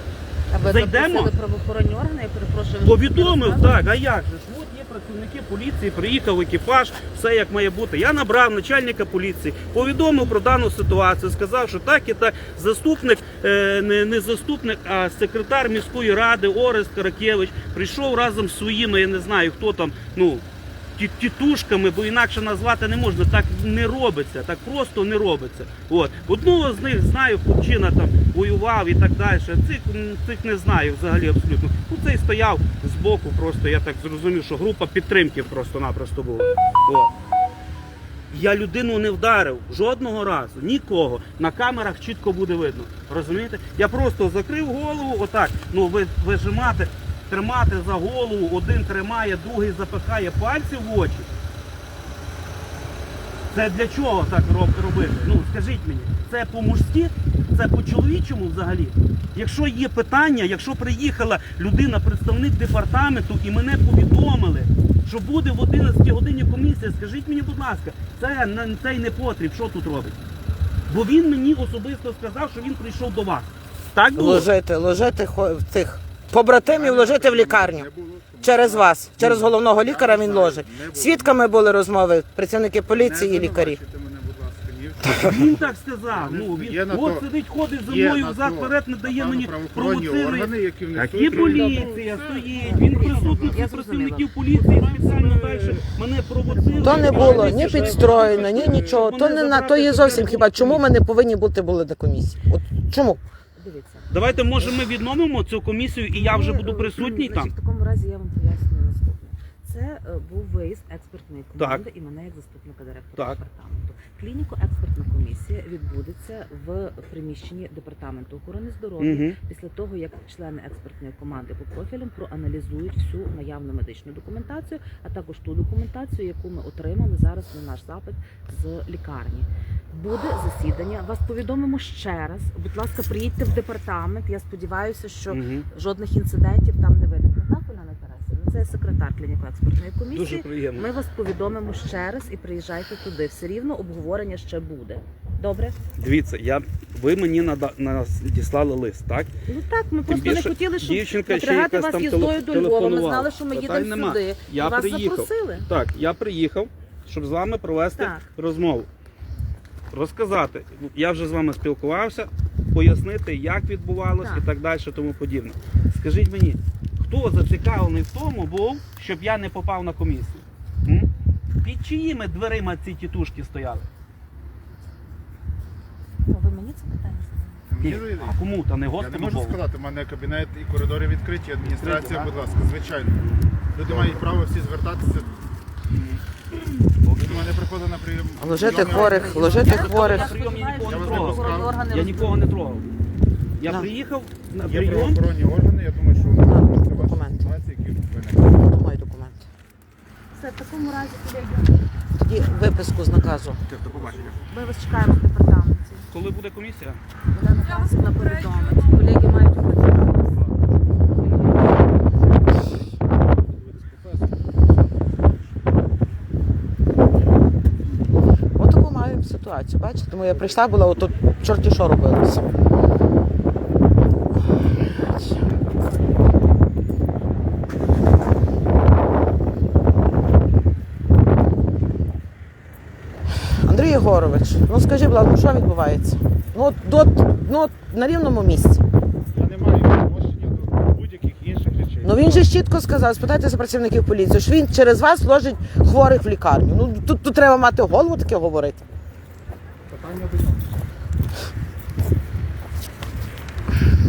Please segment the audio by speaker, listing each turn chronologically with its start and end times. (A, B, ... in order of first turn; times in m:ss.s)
0:00.5-0:03.9 A
0:00.6-0:01.3 B
0:02.8-0:20.4 B
0:21.0-0:37.1 B
0:38.3-0:51.3 B
0:53.5-1:10.2 B
1:10.9-1:14.5 B
1:14.1-1:17.9 C
1:16.6-1:21.5 D
1:18.4-1:23.8 C
1:22.8-1:27.3 D
1:25.1-1:40.9 B
1:27.8-1:33.6 D
1:32.5-1:34.4 A
1:34.5-1:35.8 D
1:36.7-1:39.0 D
1:36.7-1:37.6 A
1:36.8-1:43.2 C
1:43.6-1:44.8 A
1:44.1-1:47.5 B
1:46.1-2:25.8 A
1:51.6-1:51.8 B
1:59.0-1:59.4 B
2:15.3-2:15.7 B
2:20.1-2:20.9 B
2:26.0-2:29.3 B
2:29.5-2:35.7 A
2:30.0-2:38.9 B
2:37.9-2:38.3 A
2:39.9-2:51.1 B
2:44.2-2:44.5 A
2:51.6-2:53.9 B
2:56.3-2:57.6 A
2:57.7-2:58.4 D
2:57.8-2:59.6 B
2:59.0-3:03.2 D
3:01.6-3:04.2 B
3:03.7-3:05.4 D
3:07.0-3:07.5 B
3:07.2-3:09.8 D
3:08.4-3:10.4 C
3:08.5-3:12.4 A
3:09.4-3:12.9 B
3:10.8-3:11.8 D
3:13.6-3:15.2 B
3:14.6-3:18.6 D
3:16.4-3:17.5 C
3:18.5-3:19.5 C
3:20.4-3:21.8 A
3:22.2-3:23.6 C
3:23.7-3:24.4 B
3:24.0-3:24.3 D
3:24.4-3:26.1 A
3:26.1-3:27.0 B
3:27.3-3:30.5 A
3:31.2-3:31.7 A
3:33.7-3:34.2 D
3:38.6-3:42.6 C
3:44.8-3:45.4 C
3:53.3-3:58.8 C
3:59.4-4:02.5 D
4:02.0-4:08.9 C
4:09.9-4:10.7 D